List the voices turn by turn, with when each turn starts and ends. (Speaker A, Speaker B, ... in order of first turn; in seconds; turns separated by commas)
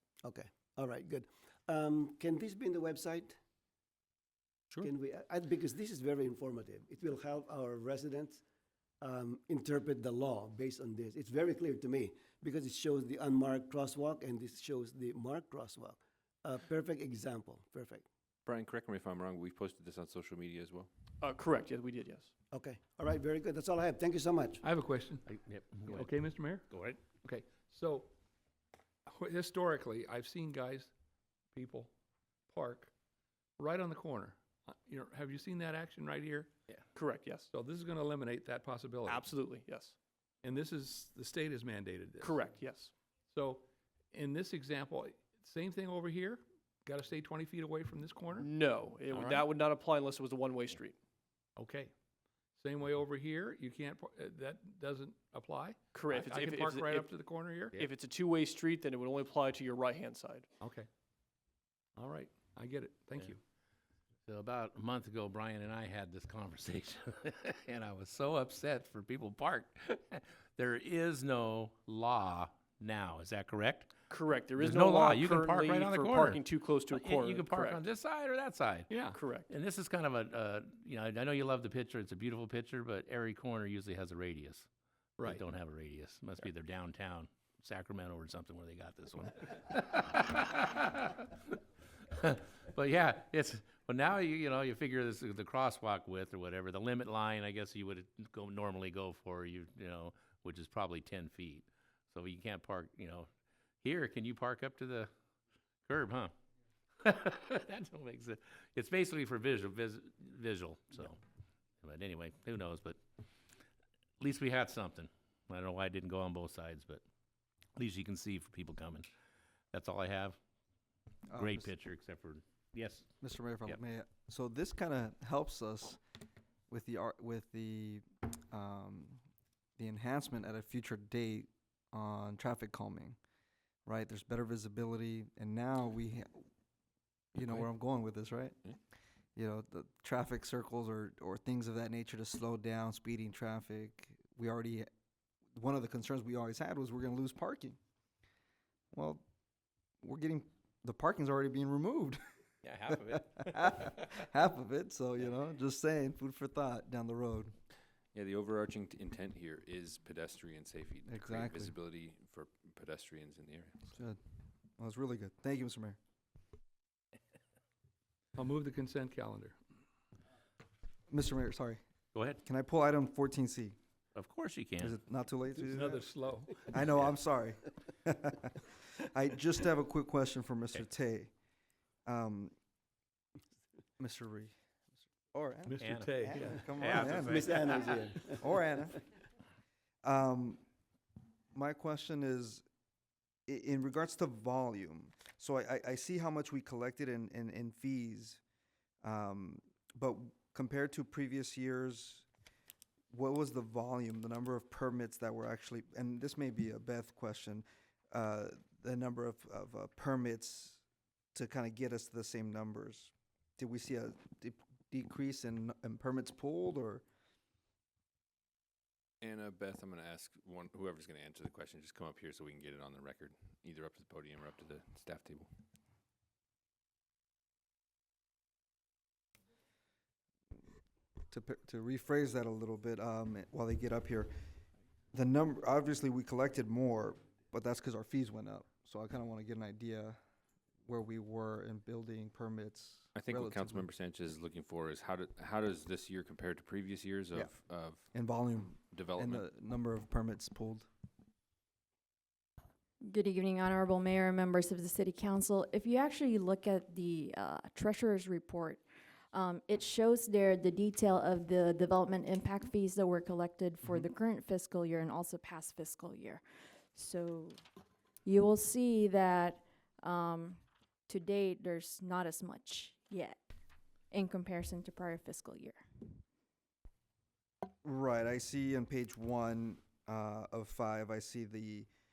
Speaker A: 0.2-3.4, Speaker A: 4.8-8.4, Speaker A: 9.0-18.1, Speaker B: 18.5-20.9, Speaker C: 21.2-22.3, Speaker A: 22.5-24.6, Speaker D: 24.6-25.2, Speaker E: 25.3-26.1, Speaker D: 25.9-28.1, Speaker E: 26.7-27.0, Speaker D: 29.1-30.9, Speaker D: 31.5-31.9, Speaker D: 32.5-32.9, Speaker D: 33.6-36.5, Speaker C: 37.0-37.5, Speaker D: 37.5-39.2, Speaker C: 39.1-40.0, Speaker D: 40.4-42.3, Speaker C: 42.2-42.9, Speaker D: 43.3-48.5, Speaker C: 48.4-51.0, Speaker D: 51.6-51.9, Speaker D: 52.6-57.8, Speaker C: 55.9-57.1, Speaker C: 57.7-60.5, Speaker D: 60.6-60.9, Speaker D: 62.0-63.4, Speaker E: 64.3-73.9, Speaker C: 74.1-77.8, Speaker E: 74.6-78.9, Speaker D: 78.9-79.2, Speaker C: 79.1-79.5, Speaker E: 79.5-84.7, Speaker E: 85.2-91.6, Speaker E: 92.2-103.3, Speaker E: 103.8-105.1, Speaker E: 105.9-106.3, Speaker E: 107.0-111.2, Speaker E: 111.8-113.0, Speaker E: 114.2-117.0, Speaker E: 117.8-119.1, Speaker E: 119.7-120.4, Speaker F: 121.3-121.7, Speaker E: 121.4-123.1, Speaker F: 123.2-126.0, Speaker F: 126.7-129.2, Speaker F: 129.8-133.2, Speaker F: 133.9-136.4, Speaker F: 137.3-138.6, Speaker F: 139.4-144.9, Speaker F: 145.6-147.8, Speaker F: 148.9-149.2, Speaker F: 150.0-152.2, Speaker E: 152.6-153.9, Speaker F: 152.9-157.5, Speaker B: 158.1-163.9, Speaker F: 161.1-161.7, Speaker F: 163.9-164.2, Speaker F: 164.8-166.0, Speaker D: 168.4-169.6, Speaker F: 171.1-171.8, Speaker E: 172.1-172.4, Speaker F: 172.4-173.8, Speaker E: 174.2-174.9, Speaker F: 174.8-176.0, Speaker D: 175.7-176.7, Speaker F: 176.7-181.3, Speaker F: 182.1-182.5, Speaker F: 184.0-184.6, Speaker F: 185.3-187.7, Speaker D: 185.7-186.6, Speaker E: 185.8-188.0, Speaker A: 187.0-188.4, Speaker F: 188.4-189.0, Speaker F: 190.0-190.6, Speaker F: 191.5-192.6, Speaker F: 193.5-198.4, Speaker F: 199.0-202.3, Speaker F: 203.1-210.8, Speaker F: 211.3-217.0, Speaker B: 219.2-225.5, Speaker F: 231.3-234.3, Speaker F: 235.1-240.2, Speaker F: 240.9-243.9, Speaker B: 243.2-248.1, Speaker F: 248.1-250.9, Speaker B: 248.9-249.4, Speaker G: 253.1-266.4, Speaker G: 266.9-267.6, Speaker G: 268.2-273.4, Speaker G: 274.1-275.8, Speaker F: 277.8-281.9